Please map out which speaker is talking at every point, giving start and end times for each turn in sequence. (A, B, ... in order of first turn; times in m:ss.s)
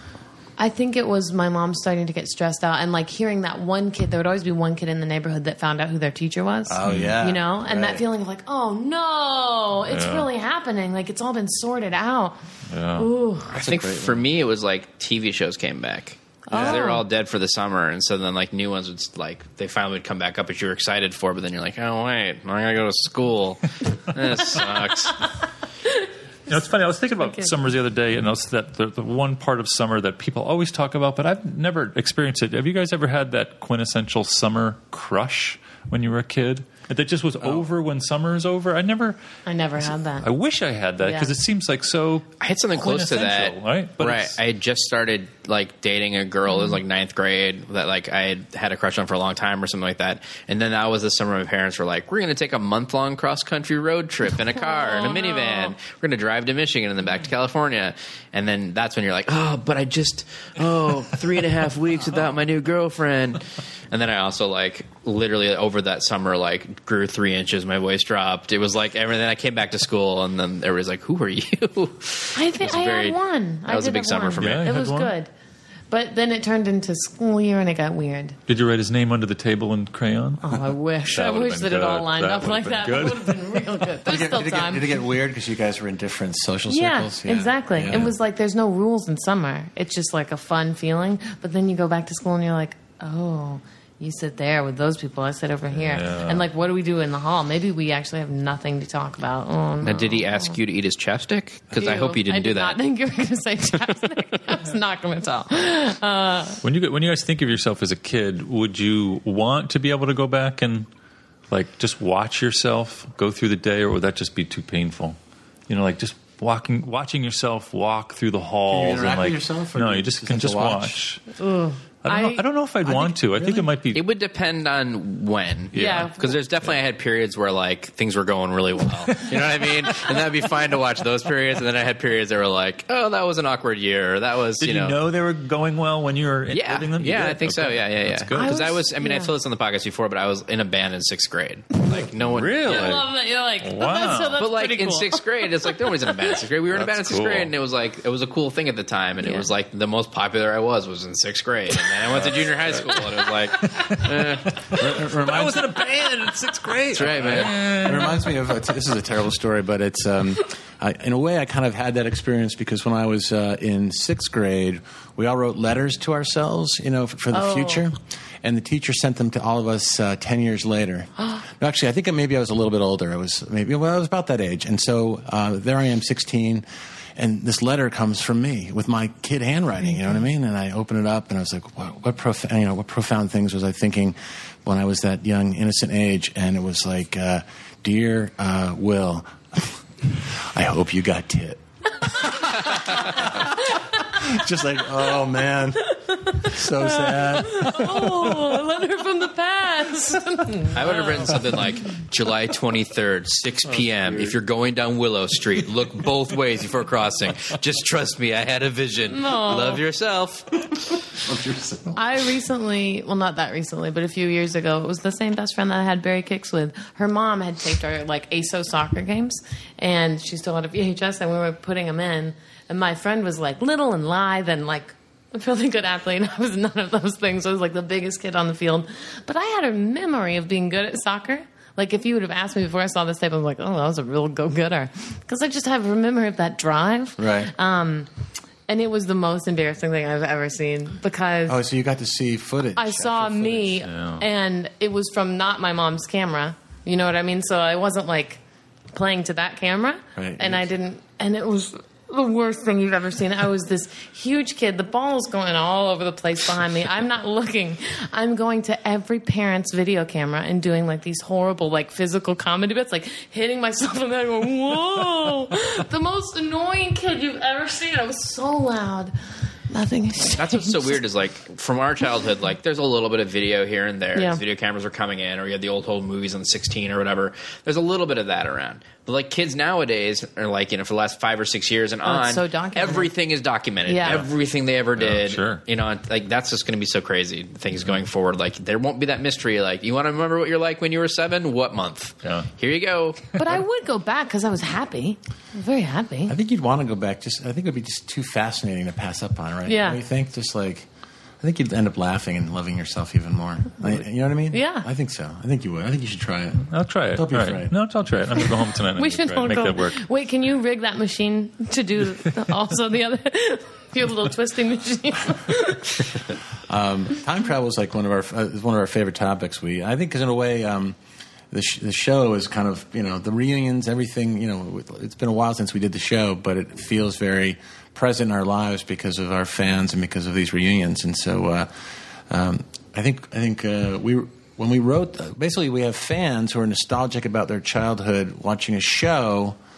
0:00.6-0:12.4 A
0:06.6-0:08.0 B
0:06.8-0:07.2 C
0:09.9-0:10.3 C
0:12.7-0:13.1 C
0:13.0-0:13.6 A
0:13.5-0:14.2 B
0:13.5-0:25.2 D
0:16.5-0:17.0 A
0:25.8-0:26.5 A
0:26.5-0:39.2 C
0:27.2-0:27.5 A
0:37.4-0:37.7 B
0:39.4-0:40.3 A
0:40.2-0:44.4 C
0:41.0-0:41.3 A
0:42.4-1:14.7 D
0:46.5-0:46.8 A
0:54.5-0:55.8 A
1:12.3-1:15.3 A
1:14.4-1:15.1 C
1:15.9-1:18.4 A
1:18.5-1:20.5 C
1:20.4-1:25.0 A
1:21.0-1:23.8 C
1:24.0-1:28.1 B
1:26.7-1:40.6 A
1:35.7-1:36.4 C
1:39.8-1:42.8 D
1:41.7-1:46.6 A
1:46.6-1:50.9 C
1:51.5-2:01.2 C
1:58.7-2:01.0 B
2:01.4-2:02.4 A
2:02.0-2:04.0 C
2:02.8-2:03.7 B
2:03.9-2:15.0 D
2:05.7-2:06.1 C
2:05.7-2:06.3 A
2:14.6-2:18.5 C
2:16.5-2:23.0 D
2:18.3-2:19.3 A
2:22.2-2:23.1 C
2:22.6-2:26.3 A
2:23.6-2:24.4 C
2:24.4-2:34.8 D
2:26.7-2:27.5 C
2:29.2-2:29.5 A
2:32.1-2:38.3 C
2:34.7-2:36.1 B
2:36.9-2:37.8 D
2:37.1-2:56.6 B
2:47.3-2:47.8 A
2:51.2-2:51.4 A
2:57.2-3:18.5 B
3:15.9-3:21.4 A
3:20.7-3:30.7 D
3:29.1-3:29.8 A
3:31.2-3:32.0 B
3:31.9-3:58.1 A
3:57.2-3:57.5 B
3:58.7-4:01.6 A
4:01.5-4:03.8 B
4:02.8-4:08.4 A
4:03.8-4:04.2 C
4:08.9-4:29.1 A
4:10.2-4:10.7 B
4:29.7-4:31.0 A
4:30.4-4:53.3 D
4:34.1-4:34.4 A
4:42.0-4:43.1 A
4:43.8-4:44.2 A
4:44.0-4:44.3 C
4:45.0-4:45.6 C
4:53.3-4:56.3 A
4:56.3-5:00.9 B
4:59.6-5:00.0 A
5:01.4-5:07.8 B
5:04.5-5:04.9 A
5:06.6-5:10.0 C
5:08.9-5:16.2 A
5:16.7-5:21.0 B
5:21.5-5:31.7 B
5:32.3-5:39.6 B